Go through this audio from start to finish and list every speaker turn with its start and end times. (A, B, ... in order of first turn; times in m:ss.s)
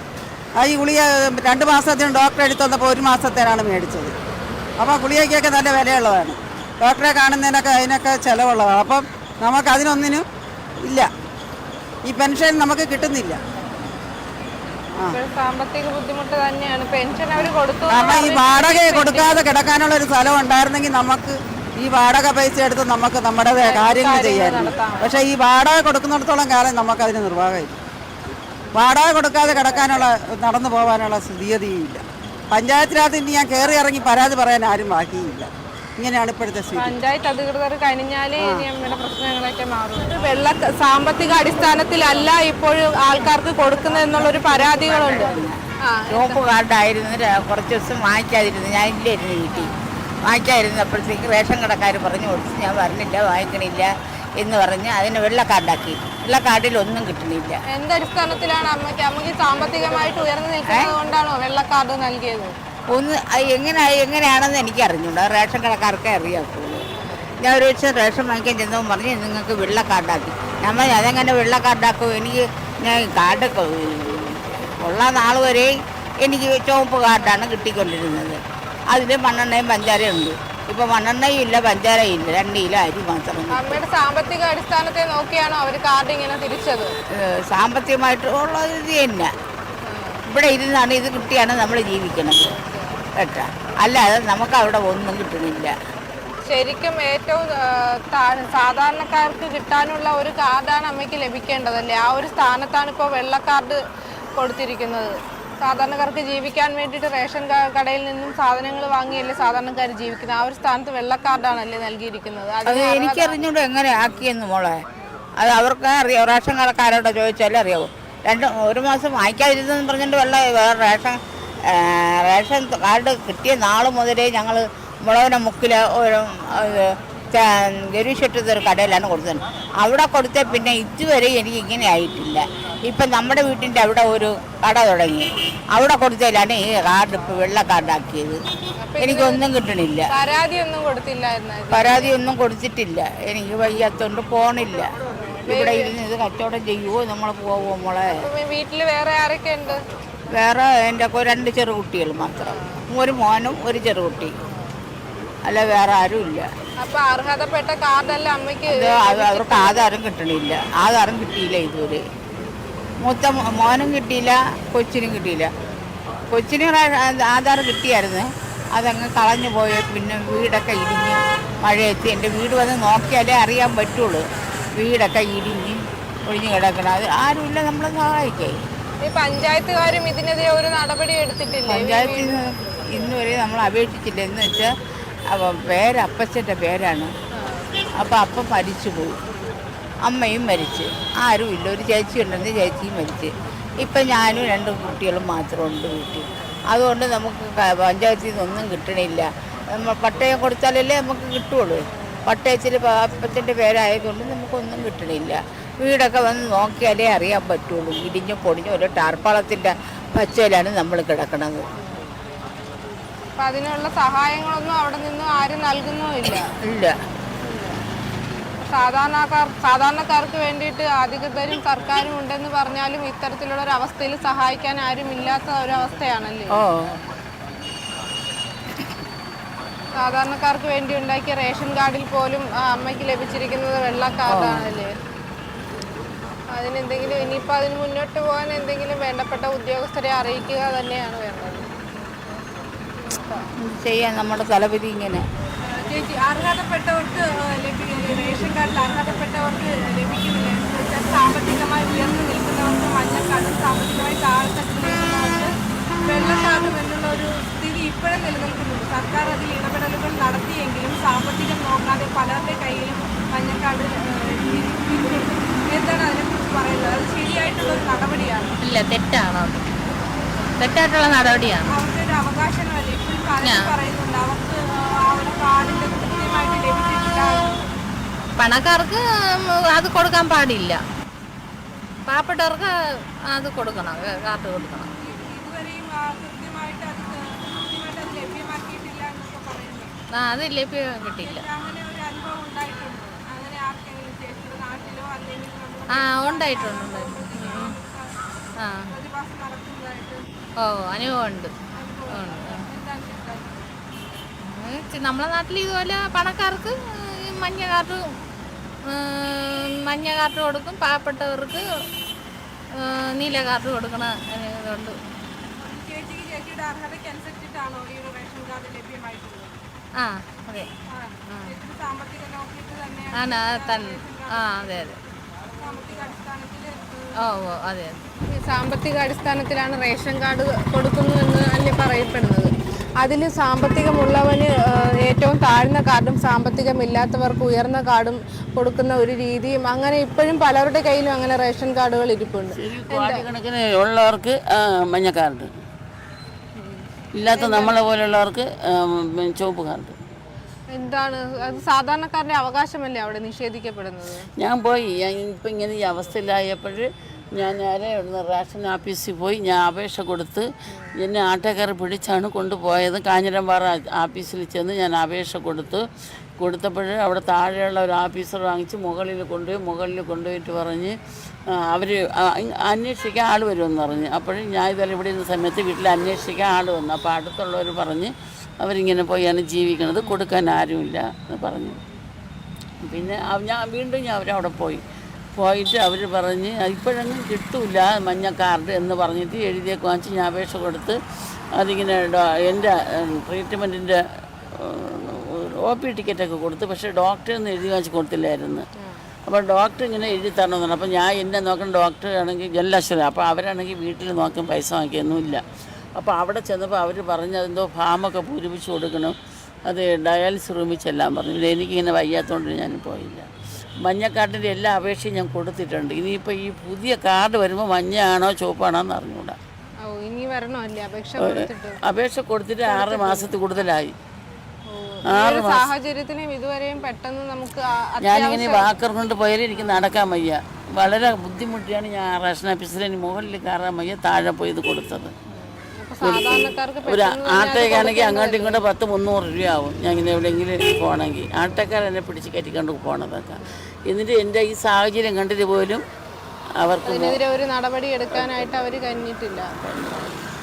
0:00.6-0:04.1 A
0:04.8-0:10.2 A
0:10.8-0:11.1 A
0:12.0-0:13.4 A
0:15.0-0:19.4 B
0:17.4-0:27.8 A
0:23.6-0:25.2 B
0:28.8-0:37.0 A
0:36.8-0:46.4 B
0:44.1-0:45.6 C
0:46.1-0:49.7 C
0:50.2-0:57.6 C
0:57.7-1:02.5 B
1:00.7-1:01.0 C
1:02.9-1:06.8 C
1:07.0-1:07.4 B
1:07.4-1:23.8 C
1:23.5-1:27.0 B
1:27.1-1:29.3 C
1:29.9-1:30.2 B
1:30.3-1:32.5 C
1:32.6-1:32.9 B
1:33.2-1:35.7 C
1:36.5-1:43.8 B
1:44.4-1:53.4 B
1:52.6-1:54.8 C
1:55.4-2:18.4 C
2:18.8-2:19.4 B
2:19.0-2:20.1 C
2:20.1-2:22.1 B
2:21.7-2:24.9 C
2:25.5-2:25.9 B
2:25.5-2:28.2 C
2:28.2-2:29.8 B
2:30.3-2:34.3 C
2:32.4-2:32.8 B
2:35.4-2:36.5 C
2:36.8-2:39.8 B
2:38.7-2:42.0 C
2:43.0-2:45.5 C
2:46.3-2:54.2 C
2:54.8-2:58.6 C
2:59.0-3:02.4 B
3:01.7-3:04.7 C
3:05.3-3:07.1 C
3:07.4-3:07.7 B
3:08.0-3:09.2 C
3:10.0-3:31.6 C
3:33.4-3:36.5 B
3:36.6-3:37.0 C
3:37.4-3:37.8 B
3:38.6-3:46.6 B
3:46.6-3:47.0 C
3:50.0-3:54.9 B
3:54.3-3:54.7 C
3:56.5-4:01.7 B
4:03.6-4:05.2 C
4:05.7-4:15.5 B
4:16.0-4:28.6 B
4:28.6-4:29.8 D
4:30.6-4:31.7 D
4:31.7-4:37.7 B
4:33.4-4:33.7 D
4:38.4-4:40.8 D
4:42.1-4:42.7 D
4:43.3-4:44.9 D
4:45.0-4:49.9 B
4:50.2-4:51.4 D
4:51.2-4:58.2 B
4:55.9-4:57.8 D
4:58.6-4:58.9 D
4:58.8-5:00.3 B
5:00.6-5:01.5 D
5:01.7-5:03.7 B
5:02.1-5:02.6 D
5:04.4-5:08.1 D
5:08.9-5:11.6 D
5:12.8-5:15.0 D
5:15.6-5:19.6 B
5:20.0-5:20.7 D
5:20.9-5:24.6 B
5:21.3-5:21.6 D
5:23.2-5:25.0 D
5:25.6-5:27.1 B
5:27.2-5:28.0 D
5:28.3-5:43.2 B
5:42.6-5:45.5 E
5:47.2-5:49.9 E
5:47.3-5:47.8 B
5:50.7-5:54.3 B
5:54.4-6:05.8 E
6:06.4-6:11.0 E
6:11.5-6:21.8 E
6:22.8-6:24.8 E
6:25.4-6:31.0 E
6:31.6-6:34.0 E
6:34.5-6:38.6 E
6:38.8-6:39.1 B
6:39.3-6:45.5 E
6:46.0-6:49.1 E
6:49.7-6:53.2 E
6:53.8-6:59.4 E
6:59.8-7:01.8 B
7:01.2-7:03.9 E
7:02.6-7:03.3 B
7:04.7-7:08.7 B
7:05.1-7:05.7 E
7:08.0-7:15.1 E
7:09.5-7:09.8 B
7:15.3-7:18.6 B
7:16.0-7:25.8 E
7:26.6-7:27.2 E
7:26.8-7:29.5 B
7:28.2-7:28.5 E
7:29.6-7:30.2 E